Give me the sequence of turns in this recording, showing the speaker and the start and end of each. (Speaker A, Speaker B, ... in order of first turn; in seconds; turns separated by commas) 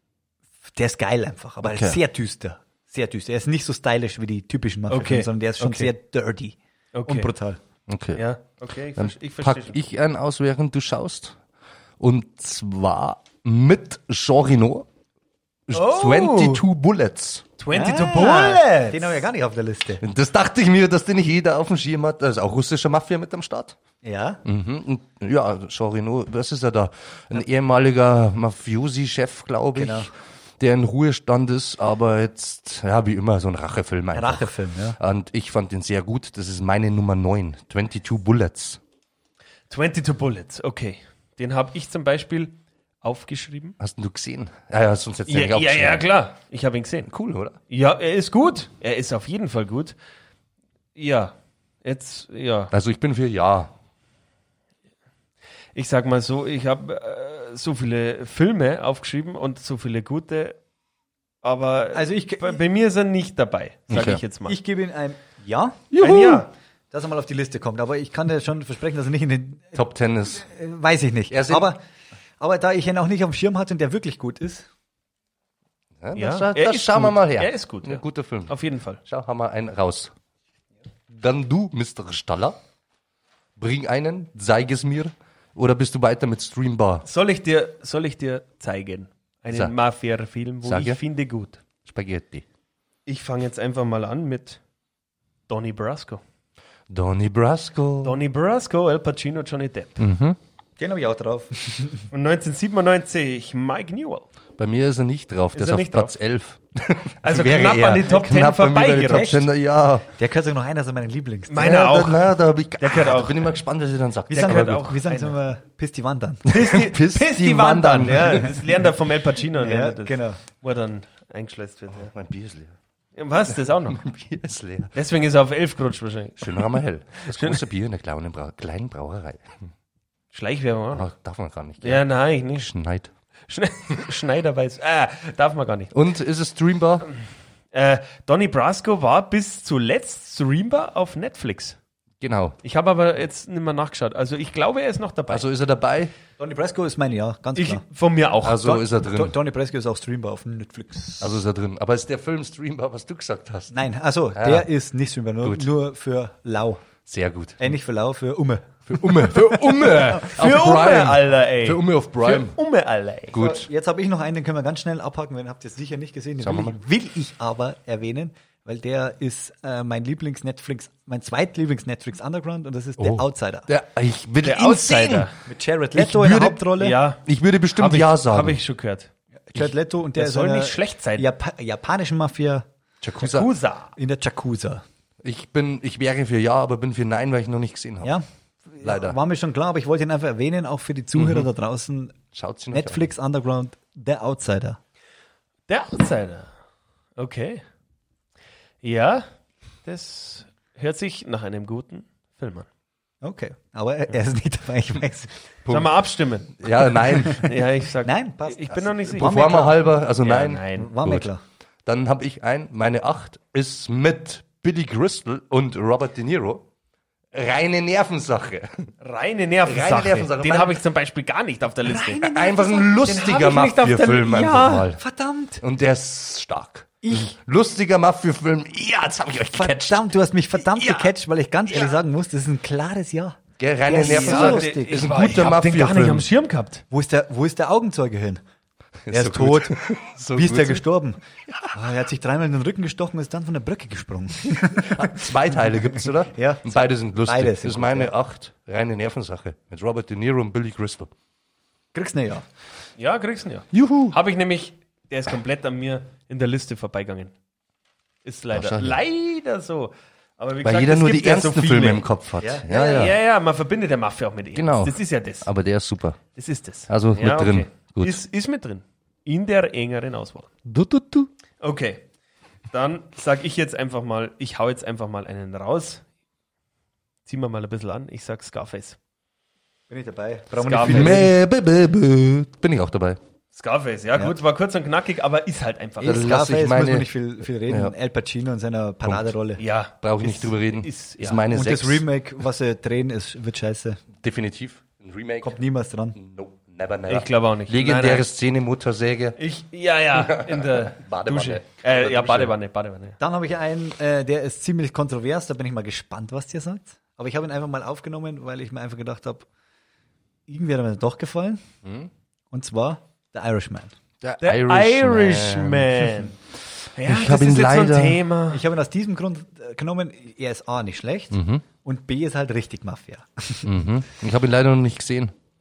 Speaker A: 0.7-7.6, Speaker B: 1.6-2.0, Speaker C: 4.9-5.9, Speaker C: 6.9-7.3, Speaker B: 7.9-8.2, Speaker C: 8.2-9.8, Speaker B: 9.0-11.4, Speaker B: 12.0-14.9, Speaker B: 15.7-17.5, Speaker C: 15.7-16.6, Speaker C: 17.6-19.2, Speaker A: 17.7-20.0, Speaker B: 20.0-23.8, Speaker A: 24.0-24.4, Speaker B: 24.4-38.8, Speaker A: 29.8-30.1, Speaker A: 34.1-35.0, Speaker C: 39.7-43.8, Speaker B: 43.8-46.1, Speaker C: 45.3-47.1, Speaker B: 47.1-47.6, Speaker C: 47.7-50.0, Speaker C: 51.0-52.7, Speaker B: 52.7-53.7, Speaker C: 55.8-60.6, Speaker C: 61.4-64.6, Speaker A: 61.9-62.6, Speaker B: 63.9-64.2, Speaker A: 64.5-69.8, Speaker B: 65.9-66.4, Speaker C: 66.0-66.5, Speaker B: 69.8-70.5, Speaker A: 70.4-71.8, Speaker B: 71.3-71.7, Speaker A: 72.4-74.7, Speaker B: 76.0-80.1, Speaker C: 76.2-79.0, Speaker B: 81.1-82.6, Speaker B: 83.6-87.1, Speaker C: 87.0-91.6, Speaker B: 90.6-91.0, Speaker B: 91.8-92.4, Speaker C: 93.1-94.6, Speaker C: 95.5-96.2, Speaker B: 96.9-98.2, Speaker C: 98.0-100.0, Speaker B: 100.0-100.4, Speaker A: 100.8-102.1, Speaker C: 102.1-104.3, Speaker B: 104.6-110.1, Speaker C: 105.5-106.1, Speaker C: 107.2-109.3, Speaker A: 109.1-109.5, Speaker A: 110.2-111.8, Speaker C: 111.5-112.2, Speaker B: 111.6-114.9, Speaker C: 112.8-113.5, Speaker C: 114.3-115.4, Speaker A: 114.3-116.6, Speaker C: 116.5-122.1, Speaker B: 116.5-118.7, Speaker A: 119.6-120.4, Speaker B: 122.0-122.8, Speaker C: 123.2-124.0, Speaker B: 123.9-124.9, Speaker C: 124.9-126.7, Speaker B: 126.4-129.7, Speaker C: 127.2-127.6, Speaker C: 130.3-131.1, Speaker B: 130.9-133.1, Speaker C: 131.8-132.7, Speaker C: 133.5-135.9, Speaker B: 135.9-137.1, Speaker C: 137.7-141.8, Speaker B: 142.2-142.6, Speaker C: 142.6-145.5, Speaker B: 145.3-146.1, Speaker A: 146.4-147.8, Speaker C: 147.6-148.8, Speaker B: 148.4-149.4, Speaker A: 148.7-151.4, Speaker B: 151.2-153.8, Speaker A: 153.7-156.9, Speaker B: 154.3-154.7, Speaker B: 155.4-155.7, Speaker B: 157.1-157.7, Speaker A: 157.6-160.3, Speaker B: 158.9-162.6, Speaker C: 160.2-163.4, Speaker B: 163.3-163.7, Speaker A: 163.4-173.7, Speaker B: 166.4-166.8, Speaker B: 173.0-175.3, Speaker C: 174.4-175.3, Speaker A: 175.5-177.0, Speaker B: 175.9-176.6, Speaker C: 176.8-177.2, Speaker B: 177.2-178.6, Speaker C: 177.7-179.1, Speaker A: 179.5-182.7, Speaker C: 180.2-181.3, Speaker B: 183.0-183.5, Speaker C: 183.2-183.9, Speaker A: 184.0-184.8, Speaker B: 185.2-188.2, Speaker A: 188.0-194.8, Speaker B: 188.8-189.2, Speaker B: 191.2-191.5, Speaker B: 192.3-193.0, Speaker C: 195.7-196.5, Speaker C: 197.2-197.6, Speaker C: 198.8-199.3, Speaker C: 199.8-202.7, Speaker A: 203.2-205.4, Speaker B: 205.7-205.9, Speaker C: 205.7-209.3, Speaker B: 206.6-207.5, Speaker A: 208.0-209.8, Speaker B: 209.2-211.3, Speaker C: 210.2-210.9, Speaker A: 210.8-211.4, Speaker B: 211.9-216.7, Speaker B: 217.3-218.9, Speaker C: 219.0-222.3, Speaker B: 219.6-220.8, Speaker A: 221.9-223.1, Speaker B: 222.2-225.0, Speaker C: 223.0-224.9, Speaker A: 225.0-225.6, Speaker B: 225.6-230.1, Speaker A: 227.0-227.3, Speaker A: 229.5-235.2, Speaker B: 233.6-236.3, Speaker C: 233.9-236.8, Speaker A: 236.9-238.4, Speaker B: 239.1-240.8, Speaker A: 239.1-239.8, Speaker A: 240.3-241.2, Speaker A: 241.7-248.1, Speaker B: 244.5-251.1, Speaker A: 251.9-252.4, Speaker C: 253.0-257.3, Speaker B: 253.7-254.2, Speaker C: 258.2-262.1, Speaker B: 258.5-259.0, Speaker B: 260.6-263.2, Speaker A: 262.4-263.1, Speaker C: 262.7-265.5, Speaker B: 264.5-266.2, Speaker C: 266.4-270.5, Speaker B: 266.9-268.2, Speaker B: 270.6-271.3, Speaker C: 271.6-272.0, Speaker C: 272.7-276.0, Speaker C: 277.3-279.0, Speaker A: 279.9-281.3, Speaker C: 280.5-281.3, Speaker B: 280.8-283.2, Speaker C: 283.5-286.2, Speaker A: 286.0-289.6, Speaker B: 286.0-287.1, Speaker B: 287.7-287.9, Speaker B: 289.0-289.3, Speaker C: 289.6-291.4, Speaker B: 290.0-292.1, Speaker A: 291.5-294.0, Speaker B: 294.2-295.6, Speaker A: 295.4-296.2, Speaker B: 296.1-299.4, Speaker C: 297.1-298.2, Speaker C: 299.4-303.2, Speaker B: 300.1-302.5, Speaker A: 303.2-309.5, Speaker A: 310.5-311.6, Speaker B: 311.9-312.1, Speaker A: 312.5-313.9, Speaker B: 314.2-316.1, Speaker C: 314.4-316.4, Speaker C: 316.9-318.6, Speaker B: 317.0-318.2, Speaker A: 318.5-323.7, Speaker B: 321.3-321.6, Speaker B: 323.6-325.3